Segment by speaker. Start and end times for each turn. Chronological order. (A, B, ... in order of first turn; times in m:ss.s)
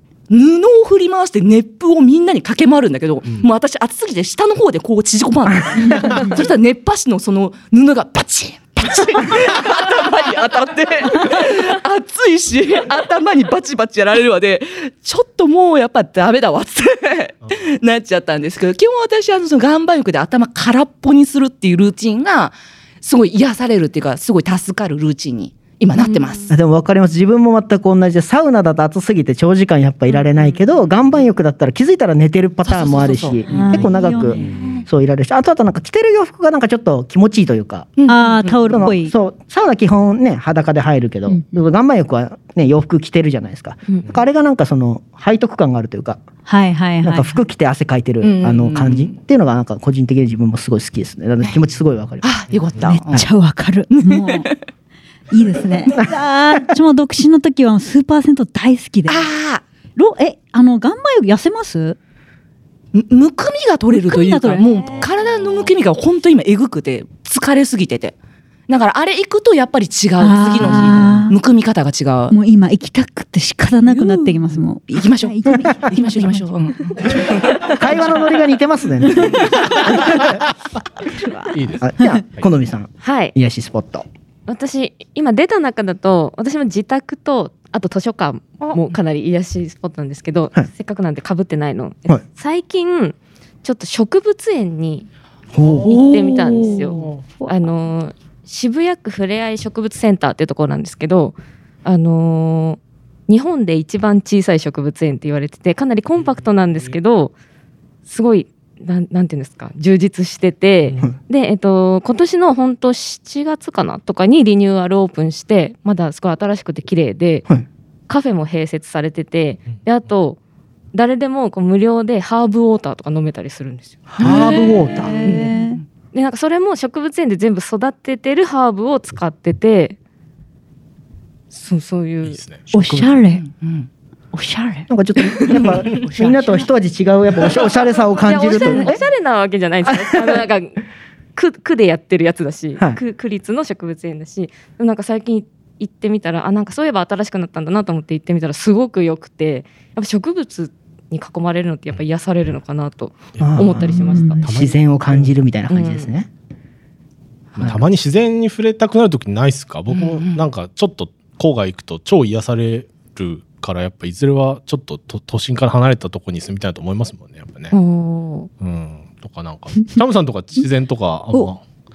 0:00.3-0:26.5 A
0:26.0-0:26.5 B
0:26.5-0:38.0 C
0:32.6-0:34.5 A
0:33.5-0:34.8 D
0:38.0-0:38.6 A
0:38.1-0:39.1 D
0:38.6-0:46.2 C
0:41.3-0:41.6 D
0:46.4-0:47.4 D
0:47.0-0:52.4 C
0:48.2-0:49.2 A
0:52.2-0:53.3 A
0:52.8-0:54.5 D
0:53.9-0:54.6 A
0:55.3-0:59.3 D
0:59.1-0:59.6 A
1:00.0-1:02.0 D
1:02.9-1:08.1 A
1:03.9-1:04.9 D
1:08.7-1:12.4 A
1:10.2-1:11.4 D
1:12.3-1:16.5 D
1:13.8-1:18.3 A
1:17.6-1:20.3 C
1:21.1-1:22.1 D
1:21.5-1:22.4 E
1:21.8-1:24.0 C
1:23.0-1:23.3 B
1:24.5-1:35.1 B
1:35.5-1:36.2 C
1:35.8-1:37.1 A
1:35.8-1:47.3 B
1:48.1-1:57.4 B
1:58.1-2:00.4 B
2:00.9-2:05.5 B
2:04.1-2:05.2 C
2:04.2-2:05.8 A
2:05.1-2:05.8 D
2:06.1-2:10.0 B
2:11.5-2:12.4 B
2:12.2-2:12.7 E
2:12.7-2:13.4 D
2:12.8-2:13.2 C
2:13.3-2:13.9 A
2:14.3-2:14.9 D
2:14.9-2:19.0 C
2:15.4-2:16.6 A
2:18.2-2:20.8 B
2:18.4-2:19.0 A
2:19.9-2:20.4 C
2:21.3-2:34.4 B
2:33.4-2:33.8 E
2:33.4-2:36.3 C
2:33.9-2:34.5 D
2:34.4-2:35.3 E
2:35.7-2:36.1 B
2:37.6-2:47.7 E
2:39.9-2:40.4 A
2:47.7-2:48.5 B
2:48.6-2:51.6 E
2:51.3-2:51.6 D